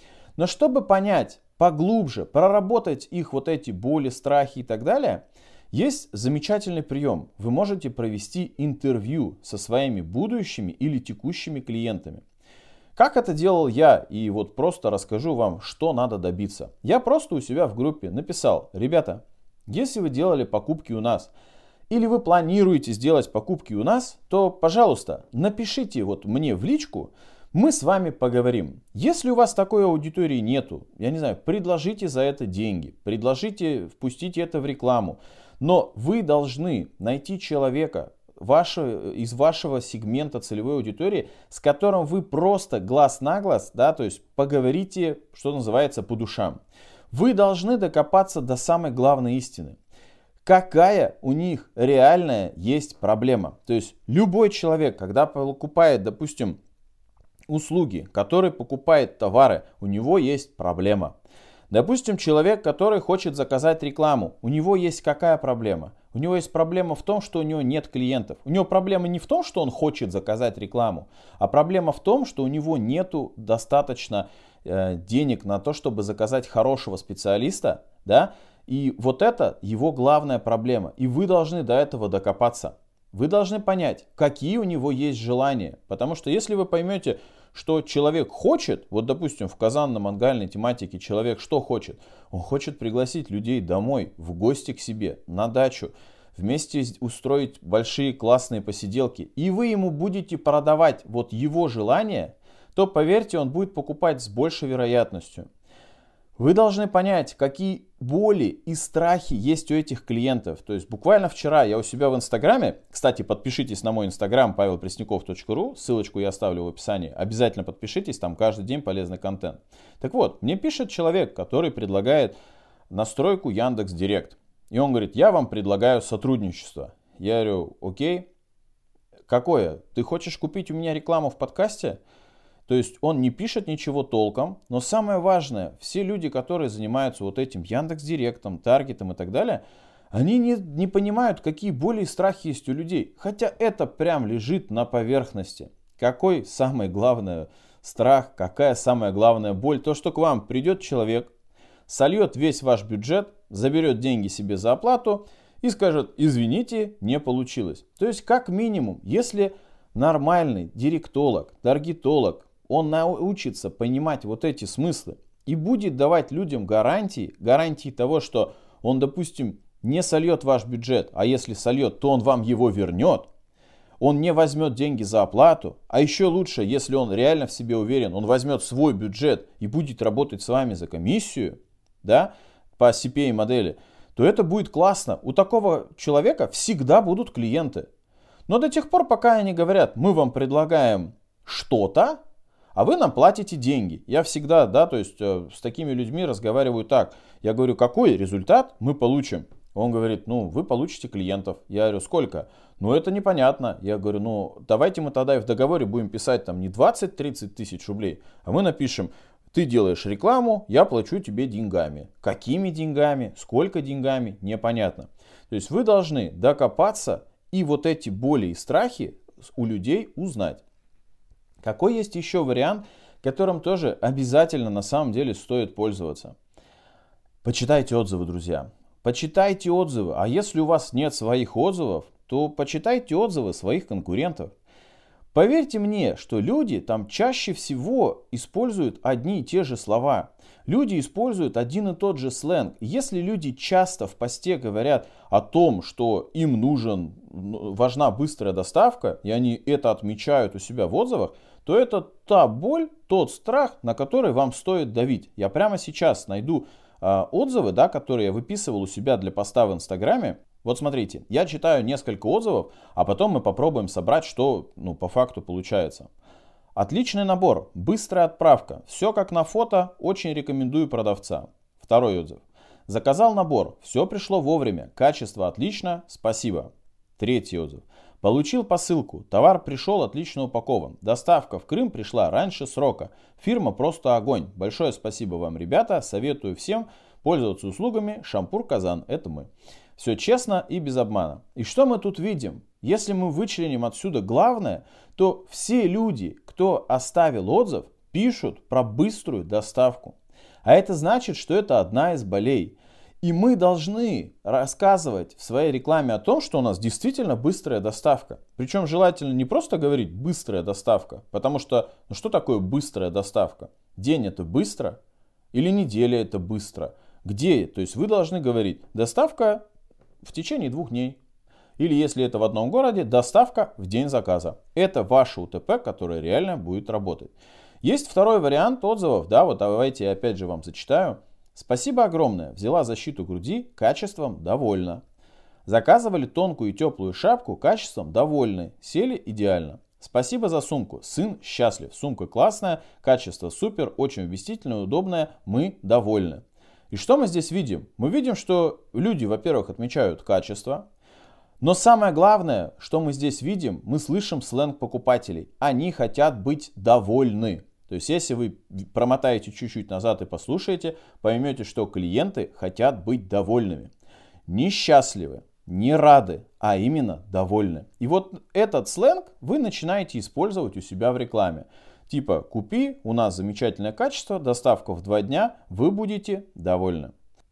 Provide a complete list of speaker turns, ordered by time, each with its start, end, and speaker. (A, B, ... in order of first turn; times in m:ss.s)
0:00.4-0:12.2 A
0:13.0-0:21.3 A
0:21.9-0:46.6 A
0:47.1-0:49.8 A
0:50.4-0:56.6 A
0:57.5-1:01.1 A
1:01.7-1:45.5 A
1:46.4-2:02.4 A
2:02.9-2:08.3 A
2:09.3-2:12.0 A
2:12.7-2:31.3 A
2:31.9-2:53.3 A
2:54.0-3:07.9 A
3:08.5-3:12.2 A
3:12.7-3:40.6 A
3:41.6-3:46.3 A
3:47.4-3:54.5 A
3:55.3-4:26.1 A
4:26.7-5:15.0 A
5:15.5-5:19.6 A
5:20.2-5:21.2 A
5:21.8-5:35.0 A
5:35.6-5:50.8 A
5:51.6-6:03.9 A
6:04.5-6:17.1 A